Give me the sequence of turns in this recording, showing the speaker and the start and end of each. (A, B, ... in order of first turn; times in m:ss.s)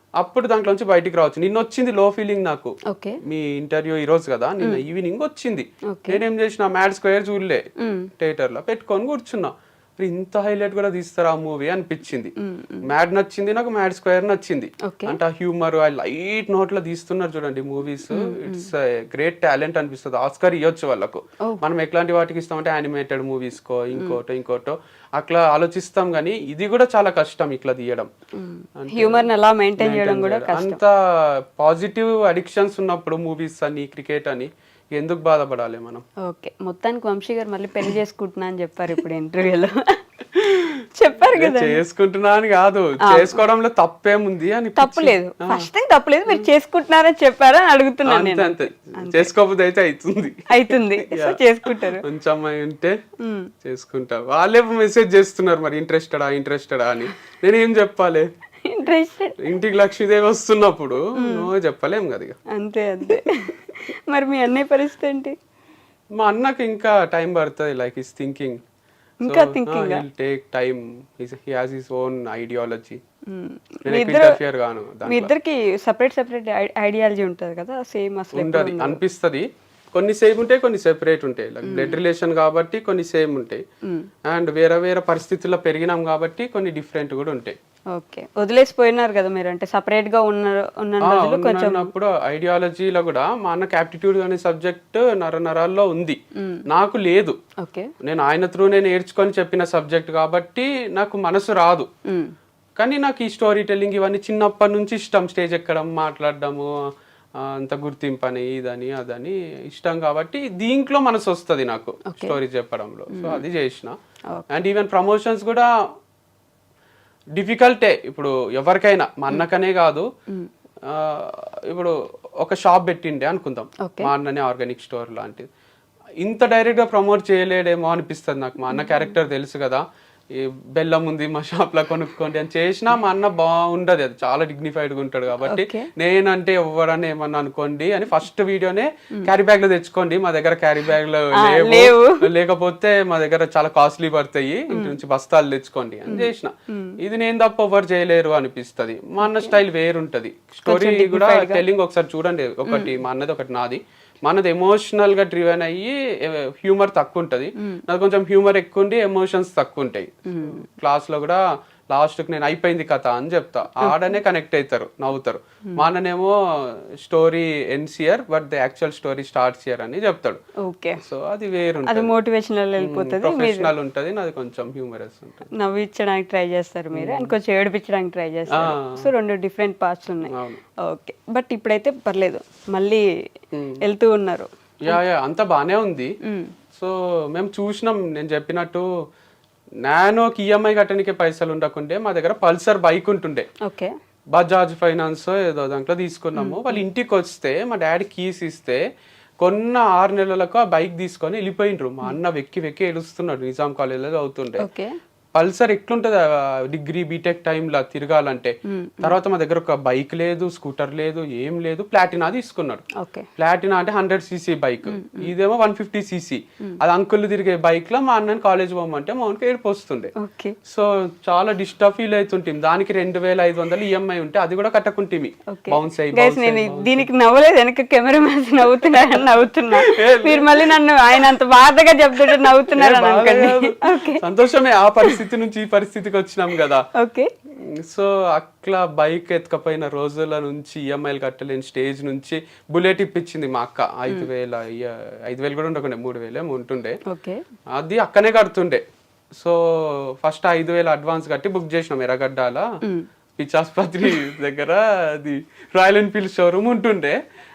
0:00.2-0:07.7 A
0:02.9-0:03.2 B
0:05.9-0:06.2 B
0:07.8-0:08.1 B
0:08.2-0:12.3 A
0:12.4-0:12.9 B
0:12.8-0:28.1 A
0:14.9-0:15.2 B
0:18.1-0:18.7 B
0:28.4-0:30.8 B
0:28.8-0:36.0 A
0:36.3-0:40.0 B
0:40.3-0:40.8 A
0:41.0-0:41.8 B
0:41.3-0:45.7 A
0:43.0-0:43.4 B
0:44.8-0:49.3 B
0:48.0-0:53.0 A
0:50.5-0:52.0 B
0:53.2-0:53.5 B
0:53.6-0:58.3 A
0:58.7-0:59.4 B
0:59.4-1:02.4 A
1:01.2-1:01.5 B
1:02.6-1:03.6 B
1:04.1-1:05.4 B
1:06.2-1:08.6 A
1:09.2-1:13.0 A
1:09.2-1:10.0 B
1:13.3-1:14.4 B
1:13.8-1:15.3 A
1:15.1-1:19.0 B
1:18.3-1:23.6 A
1:21.6-1:22.0 B
1:24.3-1:27.6 A
1:27.9-1:31.9 B
1:31.0-1:36.2 A
1:36.4-1:36.6 B
1:36.7-1:37.4 A
1:37.6-1:37.9 B
1:38.0-1:41.9 A
1:42.8-1:46.7 A
1:47.4-1:54.0 A
1:52.1-1:52.4 B
1:53.1-1:53.4 B
1:54.5-1:55.7 A
1:57.4-2:00.1 A
2:00.9-2:05.5 A
2:03.8-2:04.1 B
2:06.2-2:09.8 A
2:08.7-2:09.1 B
2:10.3-2:50.4 A
2:15.5-2:15.9 B
2:21.4-2:22.2 B
2:24.7-2:25.0 B
2:26.1-2:27.0 B
2:29.2-2:29.6 B
2:30.7-2:31.6 B
2:32.7-2:33.0 B
2:40.3-2:40.6 B
2:50.6-2:51.0 B
2:51.0-2:52.1 A
2:51.9-2:53.7 B
2:52.8-2:55.5 A
2:55.6-3:00.3 B
2:56.9-2:57.3 A
2:58.5-2:59.0 A
3:00.3-3:00.6 A
3:00.9-3:03.0 B
3:03.5-3:03.8 A
3:03.8-3:05.0 B
3:04.8-3:06.1 A
3:06.3-3:06.5 B
3:06.8-3:08.8 A
3:09.8-3:13.5 A
3:13.6-3:13.9 B
3:14.3-3:18.8 A
3:16.4-3:16.8 B
3:19.4-3:24.6 A
3:24.6-3:24.9 B
3:25.4-3:32.8 A
3:28.7-3:29.2 B
3:33.0-3:33.3 B
3:33.4-3:40.1 A
3:34.9-3:35.3 B
3:40.2-3:40.6 B
3:40.7-3:47.1 A
3:45.6-3:54.2 B
3:48.9-3:51.3 A
3:52.3-3:56.8 A
3:57.0-3:57.3 B
3:57.6-4:07.0 A
4:07.1-4:07.4 B
4:07.8-4:08.8 A
4:09.4-4:12.6 A
4:13.4-4:17.2 A